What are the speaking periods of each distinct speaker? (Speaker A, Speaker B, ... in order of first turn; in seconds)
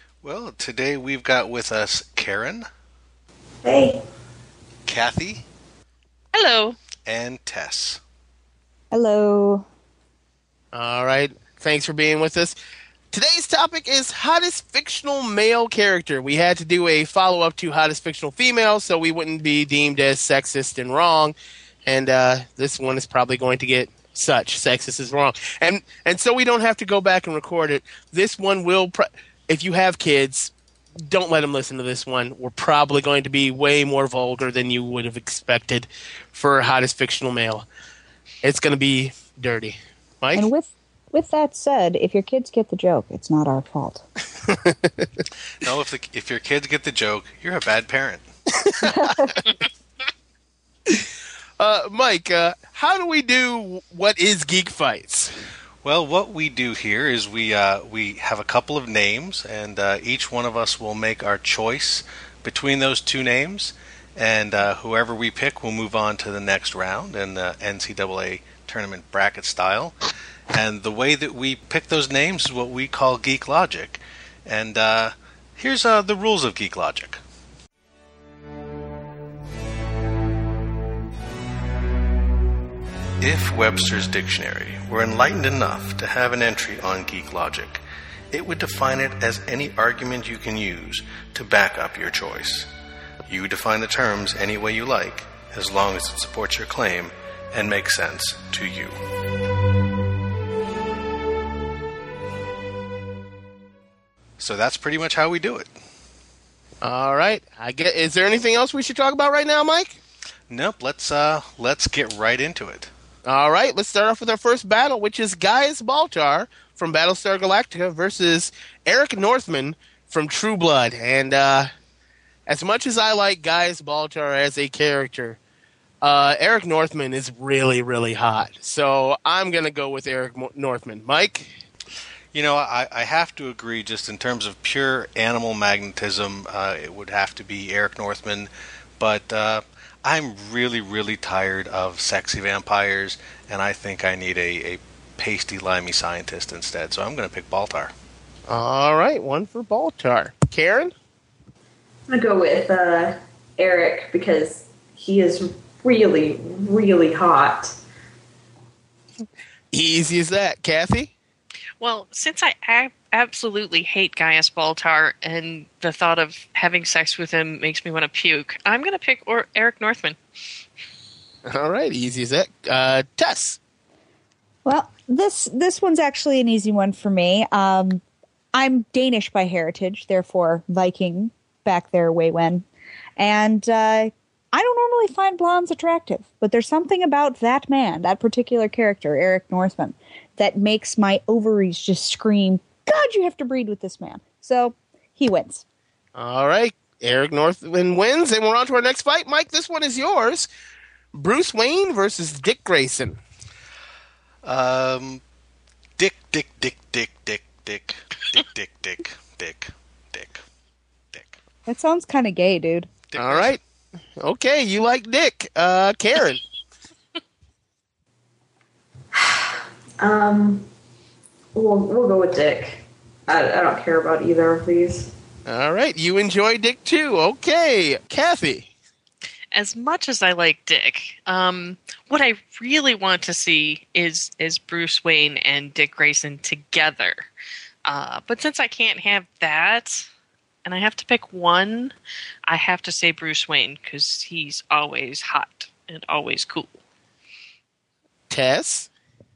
Speaker A: 0.2-2.7, 4.9-5.4, 7.0-8.0, 45.6-48.3, 55.8-69.9, 70.5-77.2, 83.2-92.7, 93.3-99.0, 104.4-105.7, 110.5-112.9, 132.3-147.9, 204.4-205.2, 206.0-210.4, 211.1-211.4, 213.1-213.6
Speaker B: 3.6-4.0, 152.1-157.8, 219.1-220.7, 221.6-225.1
Speaker C: 6.3-6.8, 161.8-170.2, 229.5-237.2, 237.9-240.1, 240.7-241.9, 242.5-246.7
Speaker D: 8.9-9.7, 40.4-44.0, 48.9-49.3, 174.7-178.0, 178.5-182.7, 183.2-195.6, 211.7-212.9
Speaker E: 10.7-12.6, 13.1-21.4, 21.9-37.7, 38.4-40.5, 44.5-45.1, 48.6-49.1, 51.6-55.3, 106.8-110.0, 113.2-121.7, 122.5-125.4, 126.0-131.6, 148.5-150.9, 159.7-161.1, 171.5-173.6, 196.2-200.5, 201.1-203.2, 213.2-213.6, 214.2-216.4, 225.5-228.7, 248.3-248.9